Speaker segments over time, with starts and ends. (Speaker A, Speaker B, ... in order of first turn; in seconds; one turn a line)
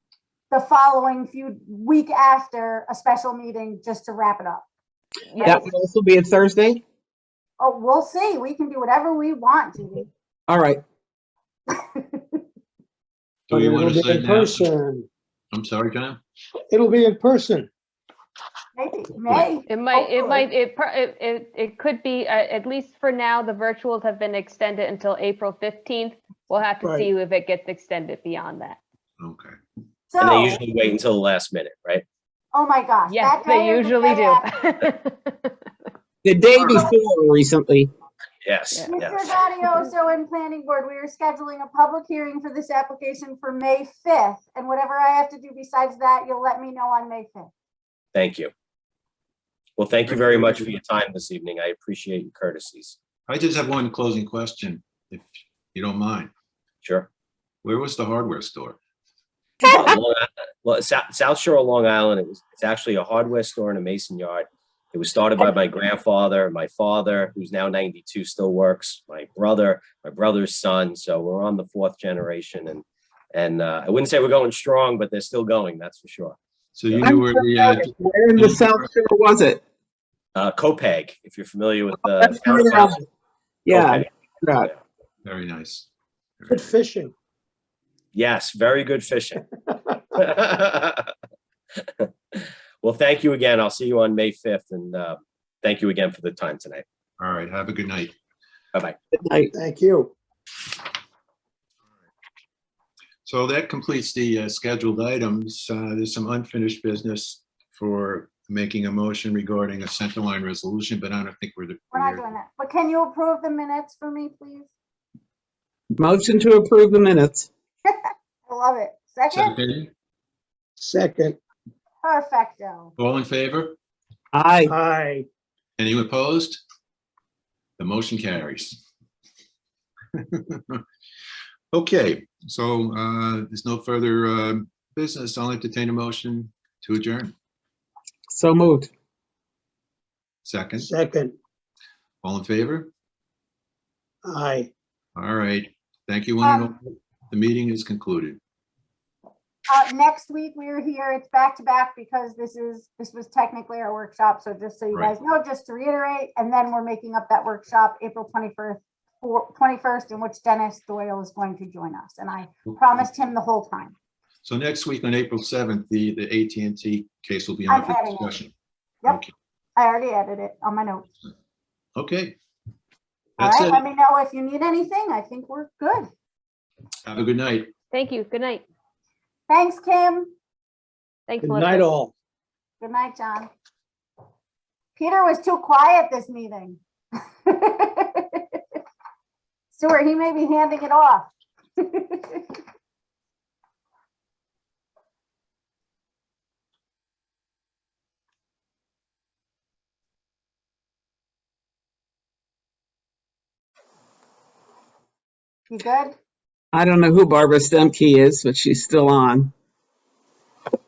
Speaker A: 0.5-4.7
Speaker B: 5.3-5.6
Speaker A: 5.4-5.6
Speaker C: 5.4-6.8
Speaker A: 7.6-10.1
Speaker C: 10.5-10.8
Speaker D: 13.5-14.7
Speaker E: 13.5-15.1
Speaker D: 15.5-16.2
Speaker E: 16.7-17.7
Speaker A: 18.8-20.5
Speaker B: 19.6-28.8
Speaker E: 26.8-27.1
Speaker D: 29.2-29.5
Speaker A: 30.1-30.6
Speaker F: 30.2-32.0
Speaker A: 32.5-34.5
Speaker B: 33.1-35.5
Speaker C: 36.2-37.9
Speaker F: 38.4-39.3
Speaker A: 38.9-47.5
Speaker F: 48.1-48.5
Speaker F: 49.8-53.0
Speaker D: 50.1-50.6
Speaker D: 53.3-56.3
Speaker F: 56.8-57.1
Speaker D: 57.6-58.8
Speaker F: 59.7-76.3
Speaker D: 76.7-78.9
Speaker C: 77.0-79.6
Speaker F: 80.3-83.0
Speaker C: 82.2-83.0
Speaker C: 83.7-84.7
Speaker F: 83.7-84.1
Speaker D: 85.2-85.9
Speaker D: 86.4-86.7
Speaker E: 86.5-87.1
Speaker F: 88.1-89.4
Speaker F: 90.2-91.1
Speaker F: 91.8-96.8
Speaker D: 97.2-98.2
Speaker C: 99.1-99.5
Speaker E: 99.5-100.1
Speaker D: 103.2-112.2
Speaker A: 111.9-114.7
Speaker C: 116.0-117.5
Speaker A: 117.8-119.6
Speaker D: 119.3-119.9
Speaker E: 120.8-121.4
Speaker A: 122.0-122.9
Speaker D: 123.0-123.8
Speaker C: 124.3-124.7
Speaker E: 124.7-125.3
Speaker D: 125.8-126.6
Speaker D: 127.8-128.8
Speaker D: 130.1-130.8
Speaker D: 131.7-137.3
Speaker C: 138.3-138.9
Speaker D: 140.4-140.9
Speaker E: 140.8-141.3
Speaker D: 142.2-142.9
Speaker E: 144.2-144.7
Speaker D: 145.2-148.4
Speaker A: 146.4-146.7
Speaker A: 149.7-163.9
Speaker D: 164.4-168.5
Speaker A: 167.7-168.4
Speaker D: 169.1-169.3
Speaker A: 169.8-171.1
Speaker D: 171.9-172.3
Speaker D: 173.4-173.8
Speaker A: 173.4-176.1
Speaker D: 177.1-177.7
Speaker B: 177.9-178.6
Speaker A: 179.5-180.3
Speaker B: 181.3-181.9
Speaker E: 181.4-182.1
Speaker A: 182.8-183.5
Speaker A: 184.9-186.8
Speaker A: 187.4-188.6
Speaker A: 189.7-192.5
Speaker A: 205.7-206.1
Speaker C: 206.7-209.5